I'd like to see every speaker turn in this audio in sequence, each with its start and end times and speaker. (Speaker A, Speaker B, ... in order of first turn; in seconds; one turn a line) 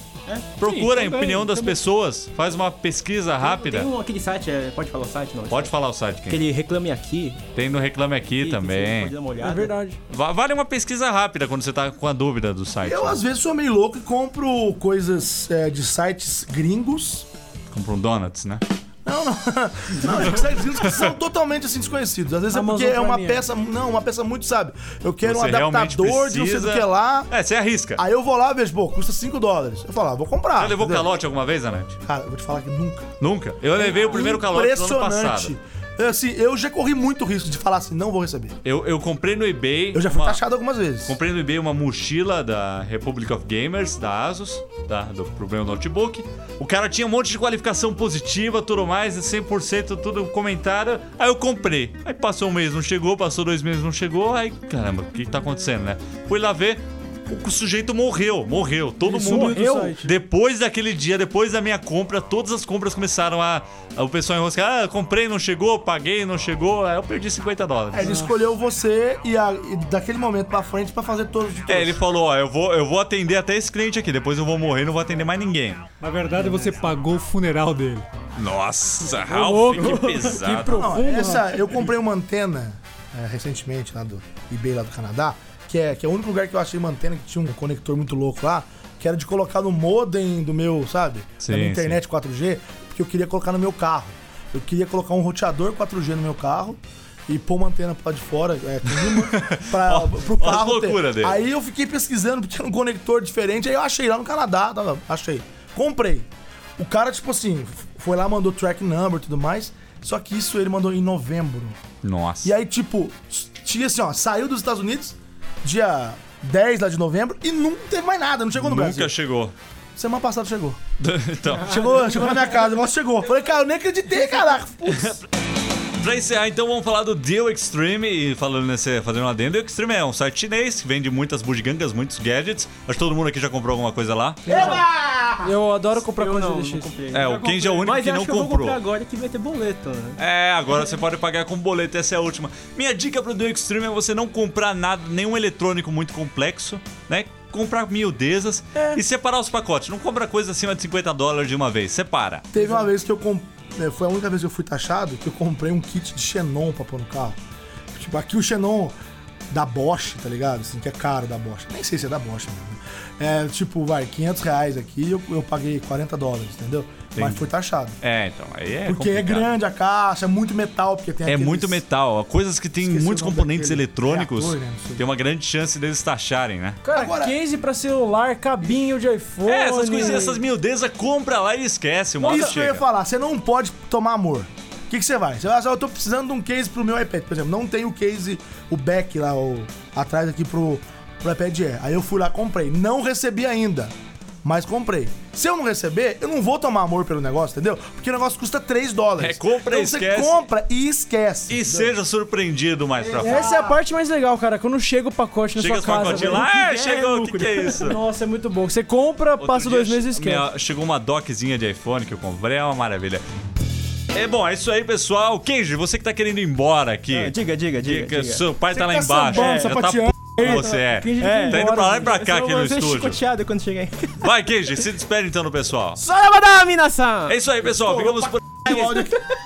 Speaker A: 0.6-3.9
Speaker B: 0.6-1.8
Speaker C: 3.4-7.4
Speaker A: 5.5-6.4
Speaker A: 7.5-9.2
Speaker C: 8.3-9.7
Speaker D: 9.4-10.0
Speaker A: 10.1-13.2
Speaker E: 12.8-17.3
Speaker A: 17.7-18.6
Speaker E: 19.1-27.3
Speaker D: 22.5-23.4
Speaker A: 25.2-28.0
Speaker E: 28.0-31.1
Speaker A: 30.6-32.0
Speaker E: 32.0-33.1
Speaker A: 33.2-35.5
Speaker E: 33.8-38.6
Speaker A: 38.6-40.4
Speaker E: 39.9-41.2
Speaker A: 41.0-68.2
Speaker D: 59.1-60.1
Speaker E: 59.1-60.0
Speaker E: 67.9-72.0
Speaker D: 68.0-68.3
Speaker A: 71.7-75.8
Speaker B: 76.0-78.1
Speaker A: 78.3-81.0
Speaker D: 79.3-81.6
Speaker C: 79.7-81.0
Speaker E: 80.6-106.3
Speaker A: 91.4-92.0
Speaker A: 99.0-101.4
Speaker E: 106.8-111.8
Speaker A: 112.0-112.6
Speaker E: 112.4-119.1
Speaker A: 118.5-119.5
Speaker E: 120.0-120.8
Speaker A: 121.0-121.8
Speaker E: 121.6-125.2
Speaker A: 124.9-125.2
Speaker A: 126.0-134.5
Speaker D: 134.4-134.8
Speaker E: 134.5-135.5
Speaker D: 135.4-136.9
Speaker C: 135.9-140.2
Speaker A: 137.1-138.8
Speaker B: 137.2-137.9
Speaker A: 140.2-152.5
Speaker E: 152.5-157.4
Speaker E: 157.9-159.0
Speaker E: 159.5-168.0
Speaker A: 167.2-167.5
Speaker A: 168.0-169.5
Speaker E: 168.8-171.8
Speaker A: 171.2-176.8
Speaker E: 172.8-175.1
Speaker D: 176.8-180.4
Speaker E: 176.9-177.4
Speaker A: 179.4-182.8
Speaker E: 182.2-201.9
Speaker A: 199.2-200.4
Speaker A: 201.5-203.5
Speaker E: 203.0-203.8
Speaker D: 203.2-206.5
Speaker A: 205.6-208.0
Speaker C: 205.8-207.9
Speaker D: 207.8-210.4
Speaker A: 209.4-213.2
Speaker A: 214.1-223.2
Speaker C: 217.1-218.5
Speaker E: 218.7-220.6
Speaker C: 219.3-219.8
Speaker C: 220.4-224.3
Speaker D: 221.2-221.8
Speaker A: 224.2-226.0
Speaker C: 226.0-227.4
Speaker A: 227.3-229.0
Speaker E: 227.9-229.2